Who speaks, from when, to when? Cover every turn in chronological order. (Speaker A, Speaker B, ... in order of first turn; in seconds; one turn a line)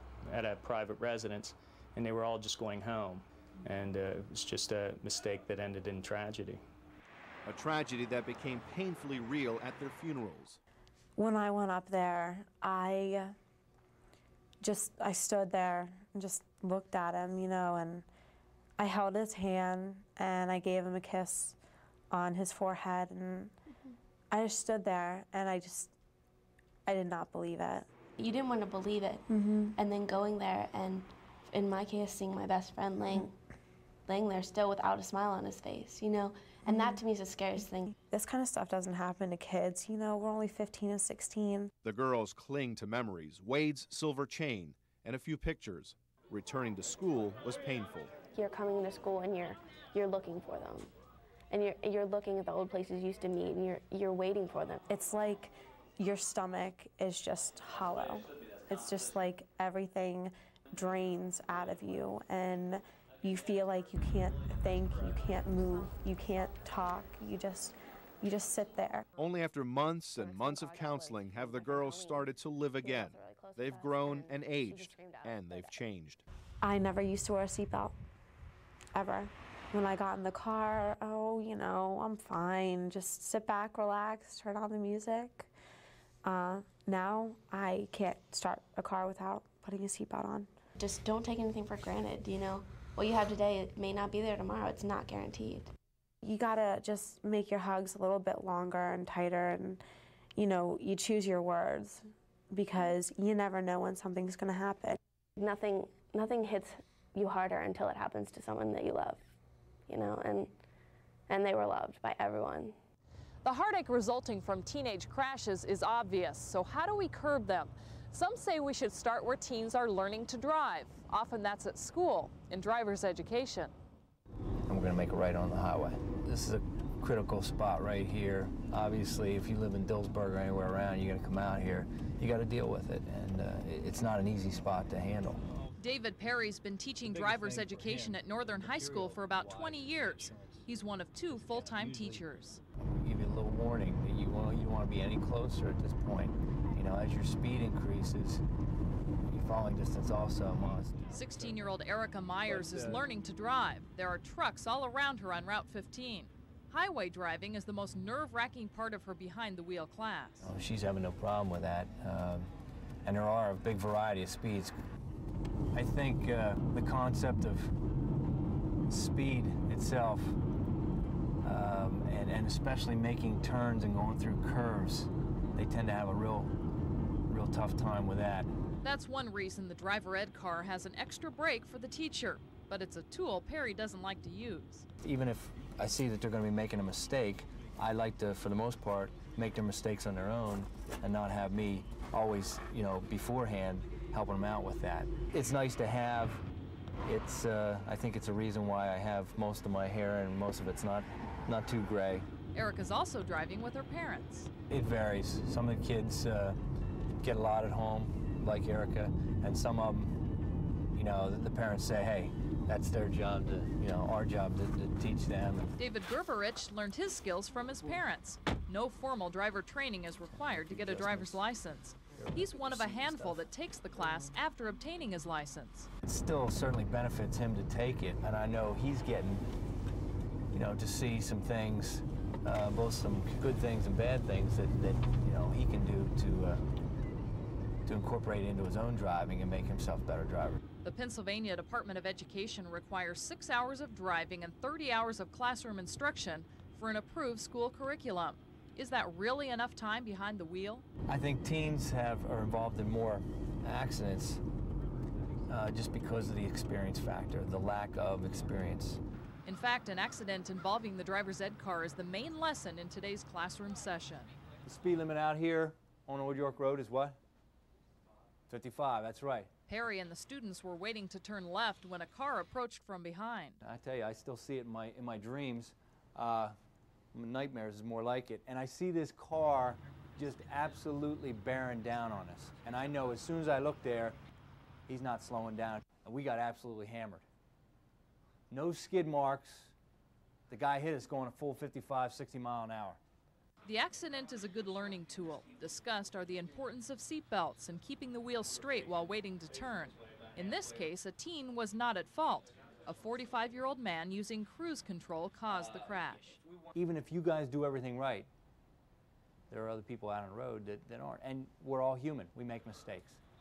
Speaker A: 0.2-6.6
Speaker B: 7.4-10.6
Speaker C: 11.2-13.3
Speaker C: 14.6-18.1
Speaker C: 18.8-21.6
Speaker C: 22.1-23.5
Speaker C: 24.3-25.9
Speaker C: 26.9-27.9
Speaker D: 28.2-33.3
Speaker C: 29.3-29.7
Speaker D: 34.1-37.9
Speaker C: 38.1-41.7
Speaker B: 41.8-48.1
Speaker D: 48.3-50.9
Speaker D: 51.5-54.8
Speaker C: 54.9-69.0
Speaker B: 69.2-76.2
Speaker D: 70.1-75.8
Speaker C: 76.6-78.0
Speaker C: 78.9-85.5
Speaker C: 86.2-90.5
Speaker D: 90.8-95.7
Speaker C: 96.2-99.8
Speaker C: 100.3-105.0
Speaker D: 105.4-109.2
Speaker D: 109.9-110.5
Speaker D: 111.3-112.8
Speaker E: 113.4-123.7
Speaker F: 124.7-135.4
Speaker E: 135.8-142.6
Speaker F: 137.1-138.2
Speaker F: 138.7-139.8
Speaker F: 142.9-148.4
Speaker F: 149.3-151.6
Speaker E: 151.1-160.5
Speaker F: 152.4-153.0
Speaker F: 160.4-162.5
Speaker F: 163.0-164.8
Speaker F: 165.7-167.7
Speaker F: 168.9-170.4
Speaker F: 171.4-176.6
Speaker F: 177.3-178.5
Speaker E: 178.8-184.8
Speaker F: 185.0-196.4
Speaker F: 197.1-202.3
Speaker E: 202.5-204.5
Speaker F: 204.7-206.6
Speaker F: 207.2-210.2
Speaker F: 210.9-215.7
Speaker E: 215.8-225.9
Speaker F: 220.6-221.4
Speaker F: 222.1-223.4
Speaker F: 226.0-229.5
Speaker F: 230.5-236.7
Speaker F: 237.8-240.6
Speaker E: 240.8-250.8
Speaker F: 251.1-254.4
Speaker F: 255.5-259.0
Speaker E: 259.4-264.3
Speaker F: 264.6-267.2
Speaker F: 268.5-269.5
Speaker E: 269.7-273.6
Speaker F: 273.6-276.6
Speaker F: 277.1-284.2
Speaker F: 284.9-287.2
Speaker F: 288.5-289.7
Speaker F: 290.5-293.0
Speaker E: 293.6-306.4
Speaker F: 306.7-308.3
Speaker F: 309.5-313.2